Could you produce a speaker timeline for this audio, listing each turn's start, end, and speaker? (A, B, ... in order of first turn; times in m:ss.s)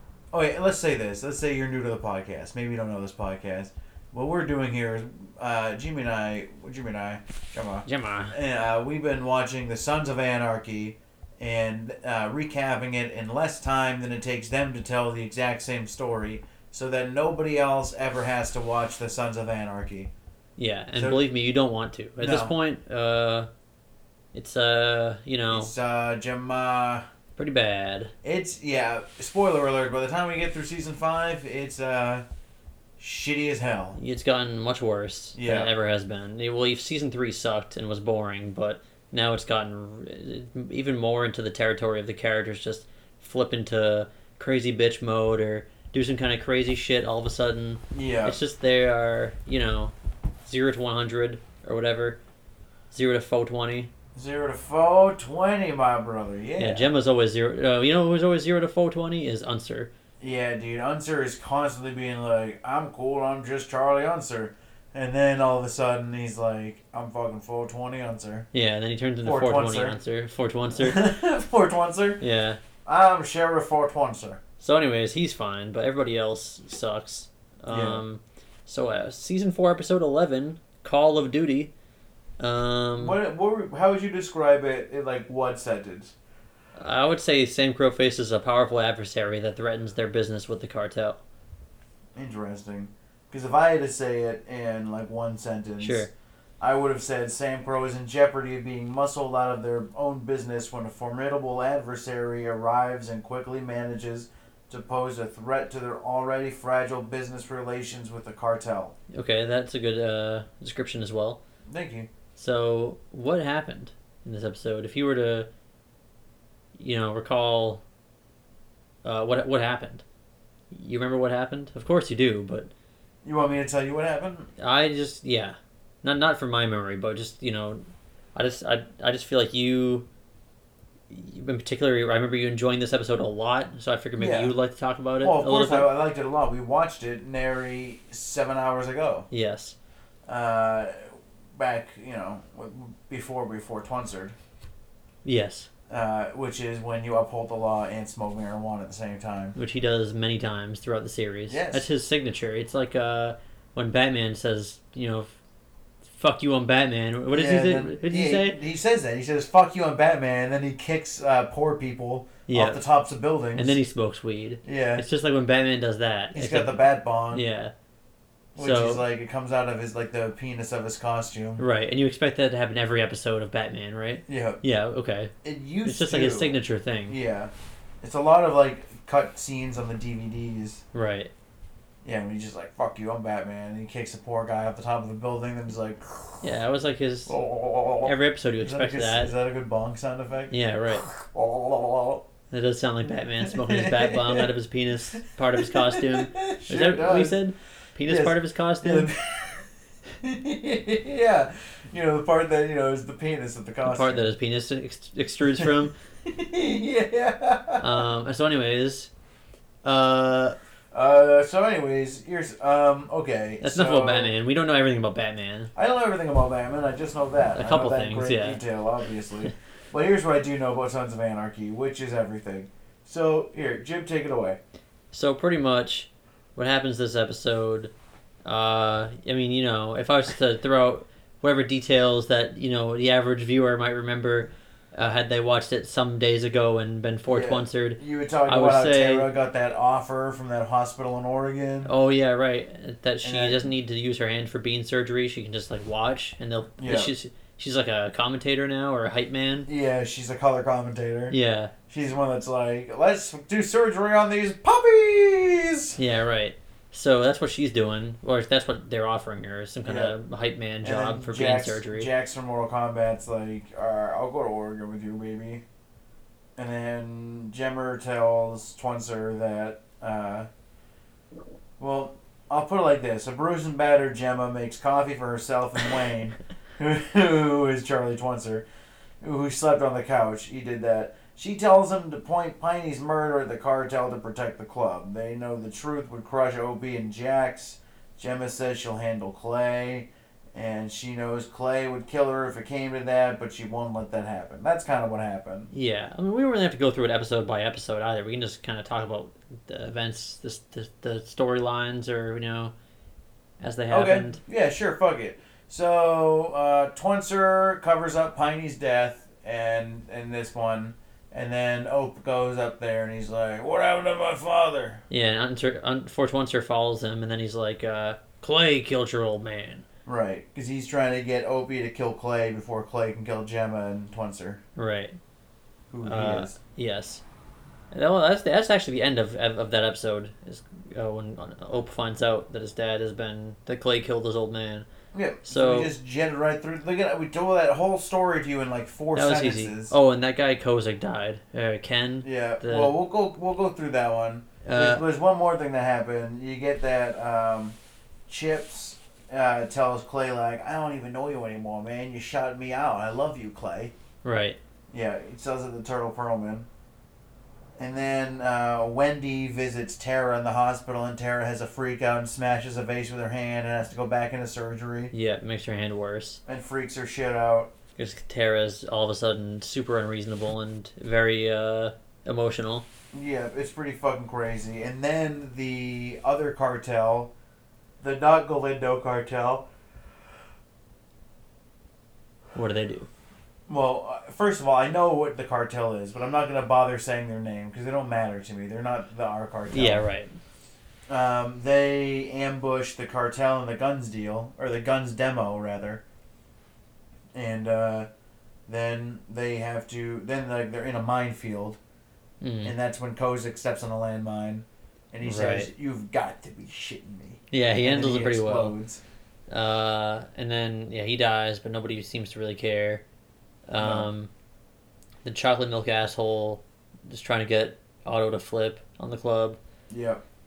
0:00.3-0:20.1 A
0:07.8-0:08.3 B
0:20.6-0:23.5 B
0:21.0-0:21.3 A
0:22.2-0:22.5 A
0:24.3-0:25.7 B
0:25.5-0:27.0 A
0:27.4-0:28.1 B
0:28.2-0:32.2 A
0:33.0-0:34.0 A
0:34.0-0:52.2 B
0:35.3-0:35.7 A
0:47.9-0:48.4 A
0:52.9-0:53.9 B
0:54.1-0:56.9 A
0:56.6-0:59.9 B
1:00.2-1:08.5 A
1:08.5-1:11.0 B
1:09.2-1:10.0 A
1:10.8-1:12.2 A
1:12.2-1:12.6 B
1:12.8-1:14.4 A
1:14.6-1:21.7 B
1:17.7-1:18.0 A
1:22.4-1:23.2 B
1:23.0-1:26.1 A
1:26.7-1:31.2 B
1:32.2-1:36.1 A
1:35.8-1:36.1 B
1:36.6-1:49.0 A
1:49.1-1:51.4 B
1:51.7-1:52.1 A
1:52.4-1:55.5 B
1:56.7-1:57.8 B
1:59.0-2:00.0 B
2:00.7-2:02.7 B
2:03.2-2:04.5 A
2:04.6-2:07.8 B
2:08.3-2:10.1 B
2:11.1-2:15.9 B
2:14.2-2:14.5 A
2:15.2-2:19.3 A
2:19.3-2:19.8 B
2:20.3-2:24.3 A
2:25.2-2:25.7 B
2:25.9-2:29.6 A
2:29.6-2:35.3 B
2:31.5-2:31.8 A
2:36.1-2:38.6 B
2:37.3-2:43.8 A
2:42.5-2:42.8 B
2:43.6-2:47.7 B
2:44.6-2:45.0 A
2:46.3-2:47.4 A
2:48.6-2:49.0 B
2:48.6-2:51.6 A
2:51.6-2:55.3 B
2:54.3-2:54.6 A
2:55.4-2:57.5 A
2:55.8-2:57.2 B
2:58.0-3:00.8 A
3:00.9-3:01.3 B
3:02.0-3:06.5 A
3:06.4-3:07.3 B
3:07.2-3:12.2 A
3:08.0-3:09.3 B
3:10.5-3:11.0 B
3:12.5-3:19.1 B
3:13.4-3:14.5 A
3:15.1-3:17.4 A
3:18.0-3:24.3 A
3:23.8-3:25.9 B
3:26.2-3:28.0 A
3:27.8-3:29.1 B
3:29.8-3:30.6 B
3:30.9-3:34.3 A
3:33.6-3:35.7 B
3:35.7-3:44.6 A
3:37.5-3:38.6 B
3:45.1-3:47.9 B
3:48.4-3:59.3 B
3:57.3-4:01.9 A
4:01.8-4:09.7 B
4:03.2-4:03.6 A
4:06.8-4:07.1 A
4:09.7-4:11.4 A
4:11.3-4:11.7 B
4:11.9-4:16.0 A
4:16.0-4:22.1 B
4:19.8-4:20.2 A
4:20.8-4:25.6 A
4:26.6-4:30.5 A
4:31.8-4:38.6 A
4:39.2-4:55.7 A
4:55.7-5:02.7 B
5:03.6-5:04.4 B
5:03.9-5:15.0 A
5:15.1-5:19.8 B
5:20.0-5:24.6 A
5:24.8-5:25.2 B
5:25.9-5:26.6 A
5:26.0-5:27.2 B
5:27.9-5:34.9 B
5:35.1-5:39.9 A
5:35.4-5:35.9 B
5:39.1-5:42.9 B
5:42.2-5:47.8 A
5:44.6-5:45.0 B
5:48.3-5:53.9 A
5:54.2-5:54.6 B
5:54.9-5:56.7 A
5:57.8-6:05.1 A
6:05.1-6:06.4 B
6:06.4-6:07.7 A
6:08.0-6:12.8 B
6:13.1-6:17.3 A
6:18.0-6:19.7 A
6:22.5-6:23.1 B
6:23.7-6:30.0 A
6:29.7-6:30.3 B
6:31.1-6:36.0 A
6:37.3-6:38.1 A
6:38.7-6:41.8 A
6:42.4-6:42.7 B
6:42.6-6:49.0 A
6:45.2-6:45.7 B
6:47.5-6:48.8 B
6:49.5-6:53.0 B
6:53.7-6:54.3 B
6:53.8-6:54.1 A
6:55.2-6:59.6 B
6:59.9-7:00.2 A